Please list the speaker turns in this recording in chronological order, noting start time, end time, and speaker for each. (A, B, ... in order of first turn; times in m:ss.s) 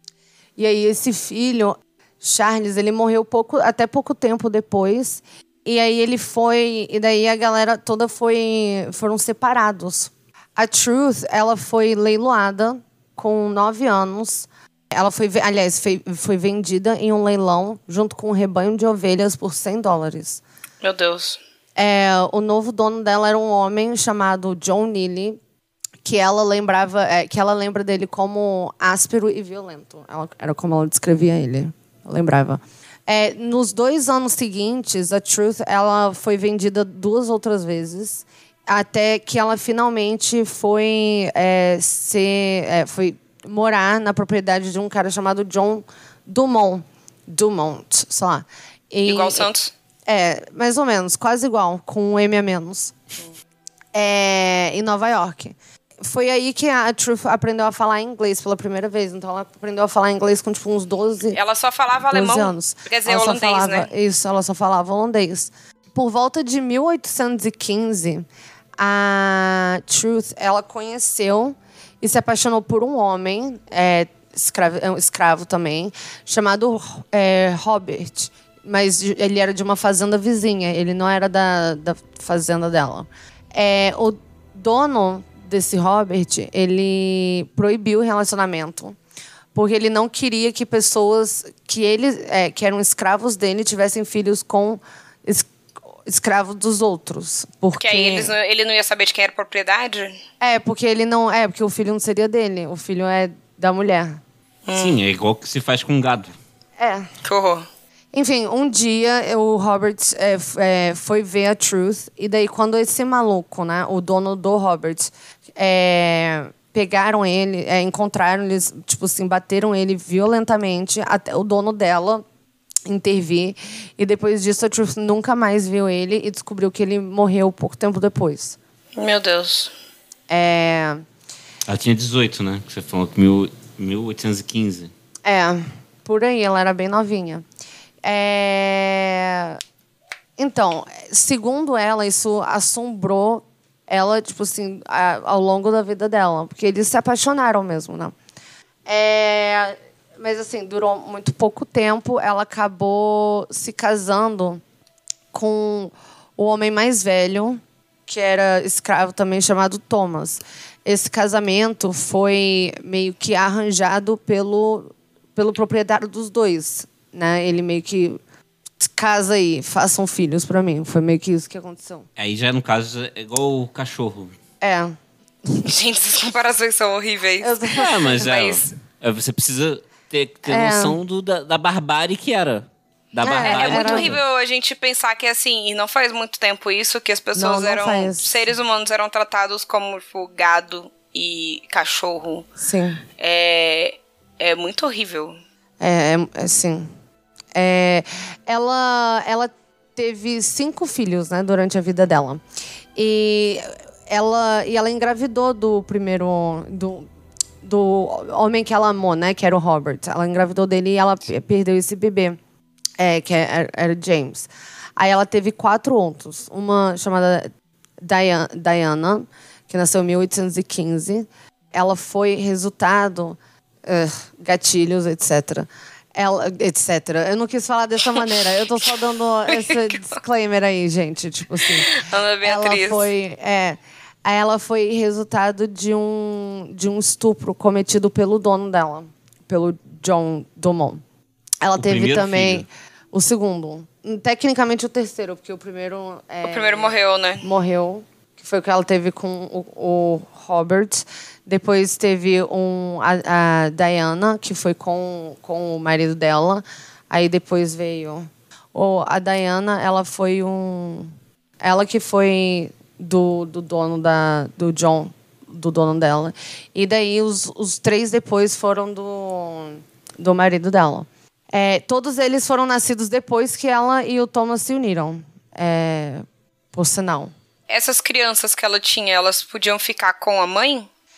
0:00.6-0:20.4 A
0:20.8-0:21.4 B
0:21.8-0:25.4 A
0:26.0-0:49.5 A
0:49.1-0:49.7 B
0:50.1-0:53.0 A
0:53.9-1:01.4 A
1:01.3-1:03.9 B
1:02.1-1:08.3 A
1:08.8-1:29.0 A
1:29.5-1:35.5 A
1:36.1-1:38.3 A
1:37.8-1:40.2 B
1:40.4-1:44.2 A
1:44.7-1:45.0 B
1:44.7-1:46.4 C
1:46.8-1:47.1 A
1:47.2-1:47.7 B
1:48.1-2:02.2 A
2:02.9-2:08.6 A
2:09.0-2:09.7 B
2:10.3-2:11.0 A
2:11.7-2:14.9 C
2:15.2-2:17.4 A
2:18.0-2:19.6 A
2:20.4-2:28.1 A
2:28.9-2:34.6 A
2:35.3-2:48.2 A
2:48.8-2:52.1 A
2:52.2-2:54.3 C
2:54.6-2:55.0 A
2:55.6-2:58.7 B
2:57.4-2:58.2 A
2:57.7-3:04.2 C
3:00.5-3:01.0 A
3:03.2-3:04.1 A
3:03.3-3:12.5 B
3:07.4-3:08.3 A
3:12.6-3:13.0 A
3:13.2-3:15.4 B
3:15.8-3:16.9 A
3:17.6-3:22.4 A
3:23.0-3:27.1 A
3:27.6-3:32.4 A
3:33.0-4:01.0 A
3:49.5-3:50.2 B
3:51.7-3:53.1 B
4:01.6-4:37.3 A
4:01.8-4:02.7 C
4:06.4-4:07.4 B
4:37.7-4:40.9 B